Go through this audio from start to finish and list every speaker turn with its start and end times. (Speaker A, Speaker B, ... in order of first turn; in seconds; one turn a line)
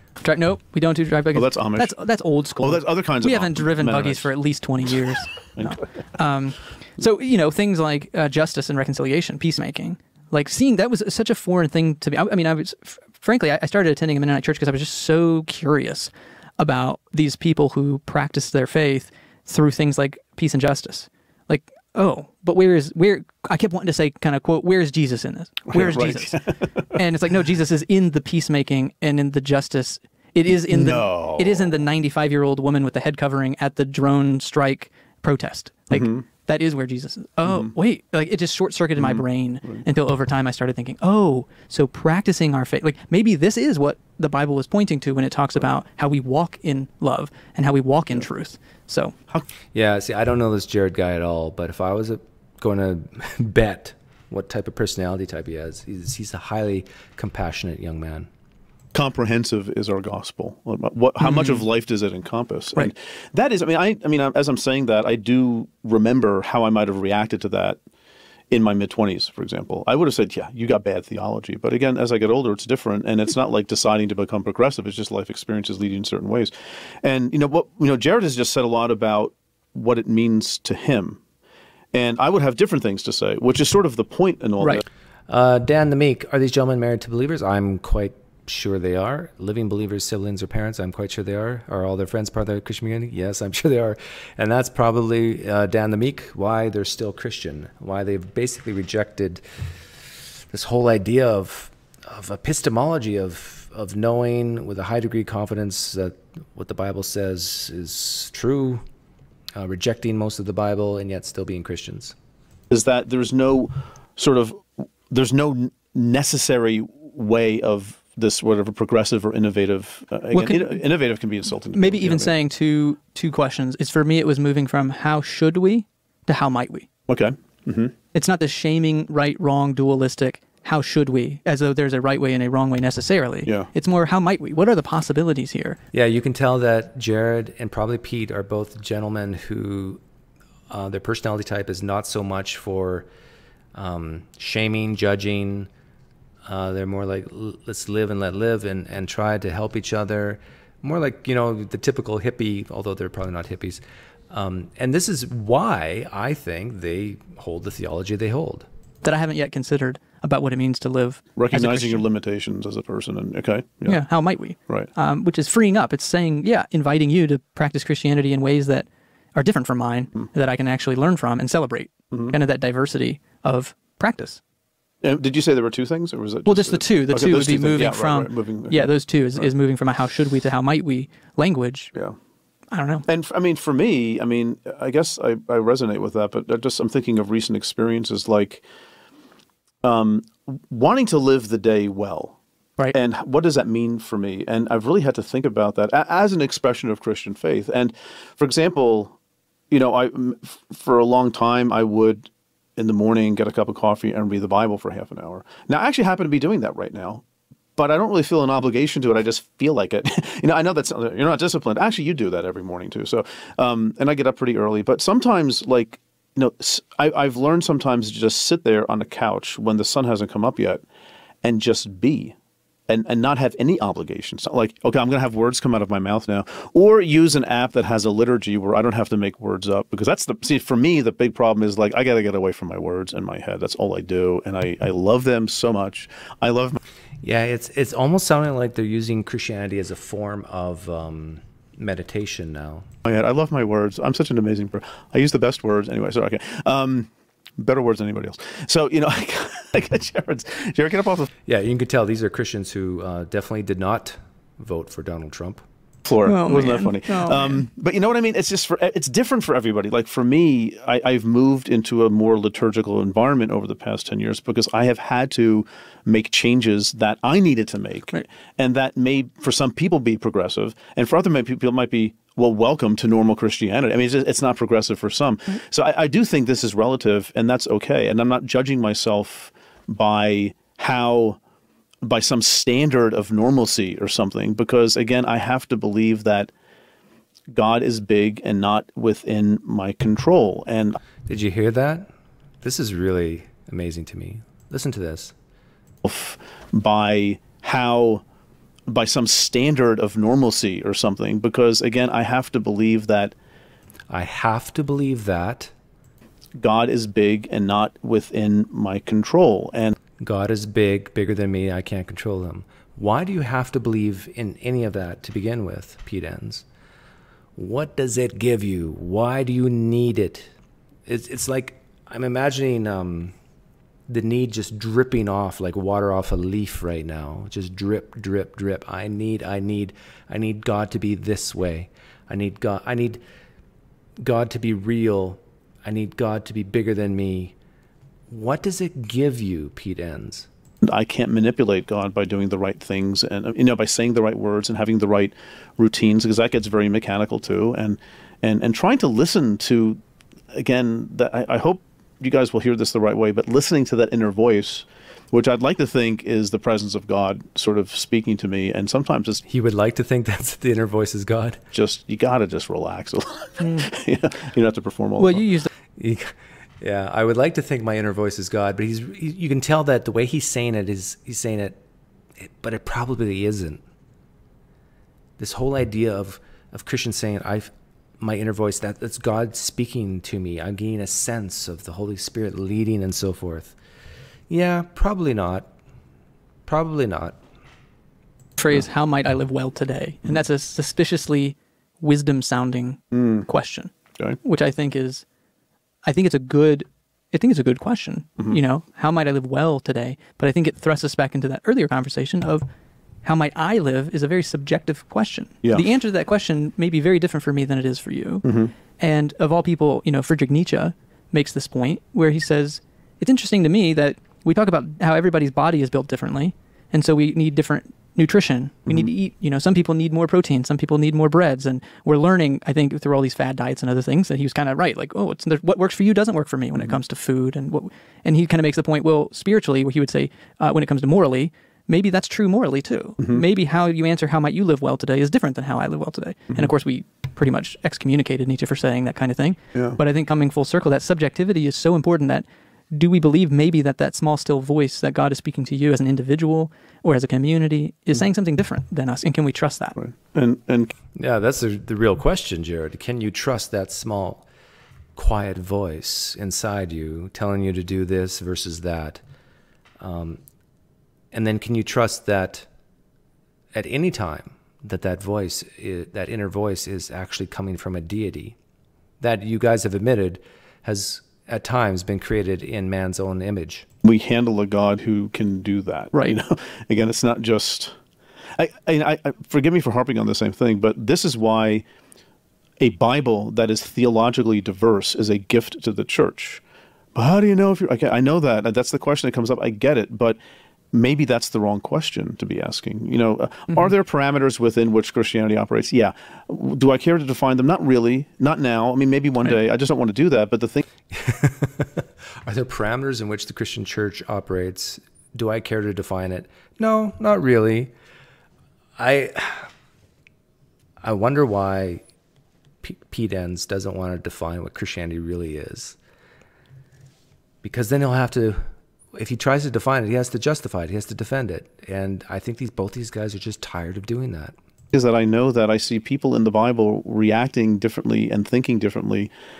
Speaker A: 0.2-26.4
Speaker B: 1.3-1.9
Speaker B: 2.6-4.3
Speaker B: 5.5-5.8
Speaker B: 25.7-26.9
Speaker A: 26.9-49.1
Speaker B: 30.7-31.7
Speaker B: 35.9-36.2
Speaker B: 39.0-39.8
Speaker C: 49.7-58.3
Speaker B: 58.9-67.8
Speaker A: 61.2-61.6
Speaker B: 68.5-76.5
Speaker B: 77.0-81.2
Speaker B: 81.9-84.8
Speaker C: 85.3-99.4
Speaker C: 100.5-108.8
Speaker C: 109.5-112.1
Speaker B: 112.7-122.3
Speaker A: 120.3-120.8
Speaker A: 121.7-126.9
Speaker B: 127.1-127.9
Speaker A: 128.1-135.8
Speaker C: 135.9-140.0
Speaker C: 140.7-143.1
Speaker C: 143.7-145.7
Speaker C: 146.4-158.7
Speaker A: 159.0-162.0
Speaker B: 161.3-164.0
Speaker A: 163.8-174.4
Speaker B: 175.0-179.5
Speaker A: 176.4-181.9
Speaker A: 182.7-183.1
Speaker B: 183.1-188.6
Speaker B: 189.8-192.4
Speaker B: 192.9-199.2
Speaker B: 199.7-207.2
Speaker B: 207.8-220.8
Speaker B: 221.4-222.3
Speaker B: 222.9-236.8
Speaker C: 237.2-242.9
Speaker B: 243.0-251.3
Speaker C: 251.4-255.6
Speaker B: 256.0-281.4
Speaker A: 256.2-257.6
Speaker B: 282.0-286.5
Speaker B: 287.5-291.0
Speaker C: 291.2-292.1
Speaker C: 292.6-295.3
Speaker B: 296.0-298.2
Speaker B: 298.9-303.3
Speaker C: 304.1-305.7
Speaker B: 306.6-309.9
Speaker C: 310.2-316.6
Speaker C: 317.6-320.5
Speaker C: 321.1-323.3
Speaker C: 324.1-333.2
Speaker C: 334.2-337.6
Speaker C: 338.3-340.5
Speaker B: 340.8-350.0
Speaker B: 350.5-359.4
Speaker C: 359.5-361.6
Speaker B: 361.7-365.4
Speaker A: 365.2-365.7
Speaker C: 365.9-371.8
Speaker C: 372.4-373.8
Speaker C: 375.4-383.8
Speaker C: 384.5-385.7
Speaker C: 386.6-387.4
Speaker A: 388.6-395.2
Speaker B: 393.1-393.5
Speaker A: 396.0-402.6
Speaker A: 403.2-408.5
Speaker B: 408.4-408.7
Speaker A: 409.0-450.0
Speaker B: 439.7-440.0
Speaker B: 450.0-450.9
Speaker C: 451.1-454.5
Speaker C: 455.1-459.2
Speaker C: 460.0-460.4
Speaker C: 461.3-462.7
Speaker C: 463.7-468.6
Speaker C: 469.2-473.9
Speaker B: 474.0-477.9
Speaker B: 478.6-481.8
Speaker B: 482.8-486.6
Speaker B: 487.1-490.4
Speaker B: 490.9-500.9
Speaker C: 501.1-507.9
Speaker C: 509.0-509.7
Speaker C: 511.0-512.0
Speaker C: 512.8-516.0
Speaker C: 517.6-518.6
Speaker C: 519.1-524.5
Speaker B: 524.9-529.3